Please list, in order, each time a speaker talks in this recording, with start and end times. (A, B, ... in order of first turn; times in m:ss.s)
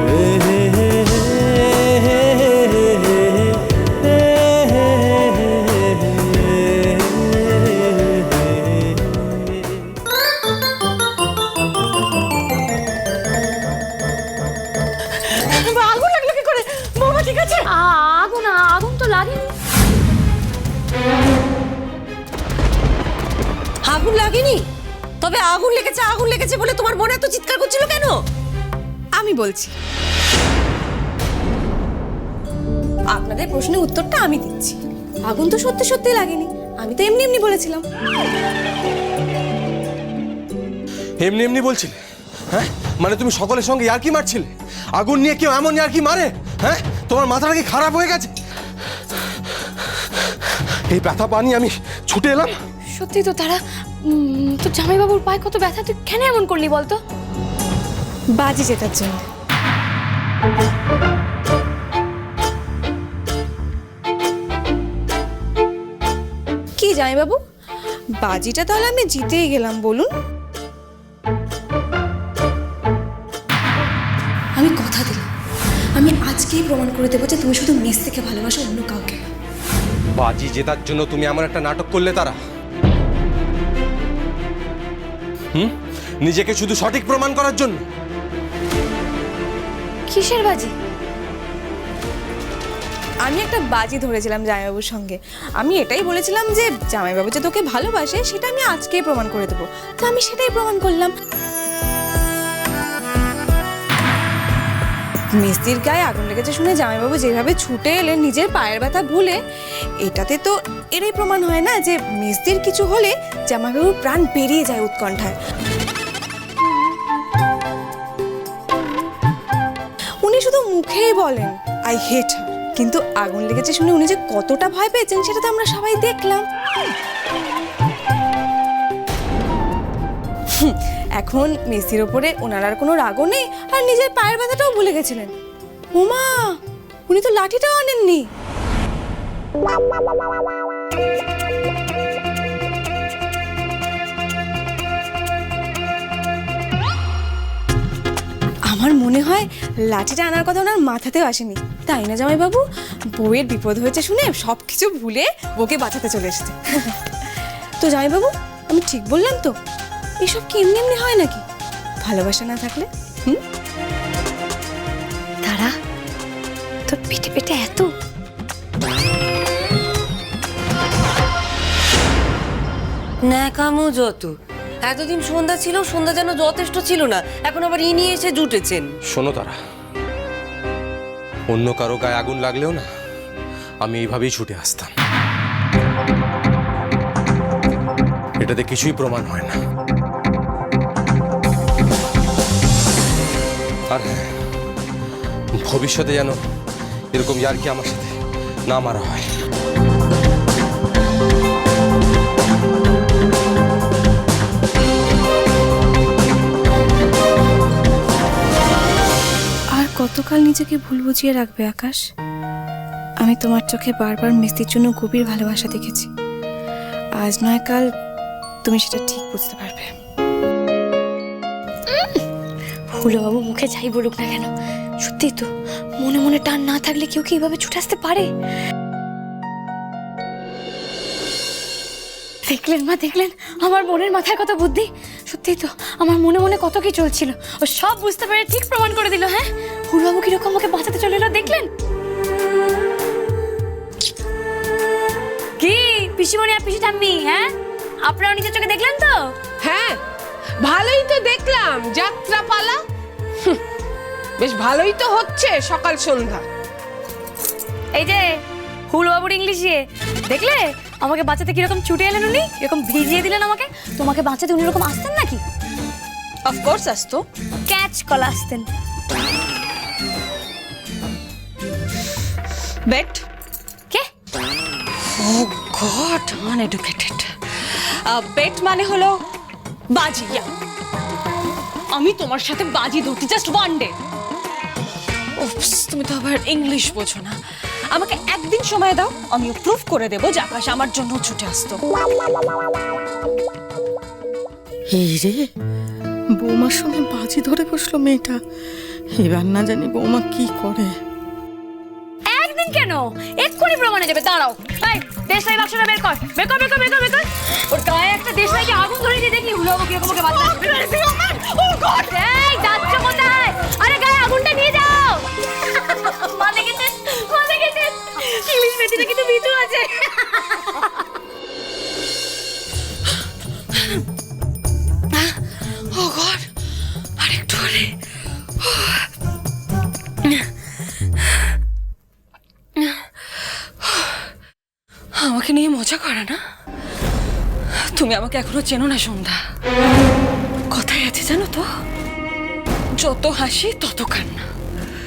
0:15.7-0:17.6 A
0:17.7-0:19.5 B
0:23.8-0:24.6 A
0:25.2-0:28.1 A
0:29.2-0:29.7 C
0:33.1-0:37.8 C
0:41.2-0:42.0 D
0:42.5-0:48.3 D
0:50.9-0:52.6 D
0:53.0-0:57.0 B
0:58.4-0:59.3 C
1:06.8-1:07.4 C
1:08.2-1:10.1 C
1:14.6-1:15.3 C
1:16.0-1:19.2 C
1:20.2-1:22.4 D
1:26.2-1:27.8 D
1:30.1-1:30.7 B
1:33.3-1:41.1 C
1:45.4-1:49.4 C
1:50.0-1:55.4 C
2:00.2-2:06.4 C
2:10.6-2:15.3 C
2:15.9-2:16.5 C
2:17.1-2:18.3 C
2:28.7-2:32.6 C
2:33.2-2:37.0 C
2:37.8-2:39.5 C
2:40.2-2:41.4 C
2:42.0-2:43.4 C
2:45.5-2:45.7 B
2:46.9-2:47.9 B
2:53.2-2:58.9 A
2:59.1-2:59.6 D
3:01.5-3:02.9 D
3:03.8-3:04.9 D
3:08.4-3:09.6 D
3:13.9-3:14.3 D
3:15.6-3:16.4 D
3:17.1-3:18.2 D
3:18.7-3:19.3 D
3:29.8-3:32.0 C
3:33.2-3:36.1 C
3:37.2-3:37.9 C
3:38.6-3:39.9 C
3:41.9-3:42.2 B
3:42.9-3:44.5 B
3:45.0-3:45.5 B
3:46.0-3:48.3 B
3:52.5-4:01.7 B
4:05.6-4:07.5 B
4:08.1-4:09.4 B
4:09.6-4:10.0 E
4:10.6-4:12.8 E
4:14.4-4:16.4 E
4:18.0-4:25.4 B
4:26.5-4:27.2 F
4:27.7-4:28.7 B
4:32.9-4:33.2 F
4:35.2-4:39.2 F
4:40.0-4:40.5 F
4:41.9-4:43.9 F
4:45.4-4:47.4 F
4:47.9-4:51.8 F
4:54.9-4:55.5 G
4:56.4-4:58.4 G
4:59.2-5:00.9 G
5:02.3-5:21.0 B
5:25.9-5:26.5 F
5:27.2-5:27.9 F
5:28.6-5:29.0 F
5:35.2-5:36.4 F
5:37.9-5:39.4 F
5:40.7-5:41.7 F
5:43.0-5:44.5 F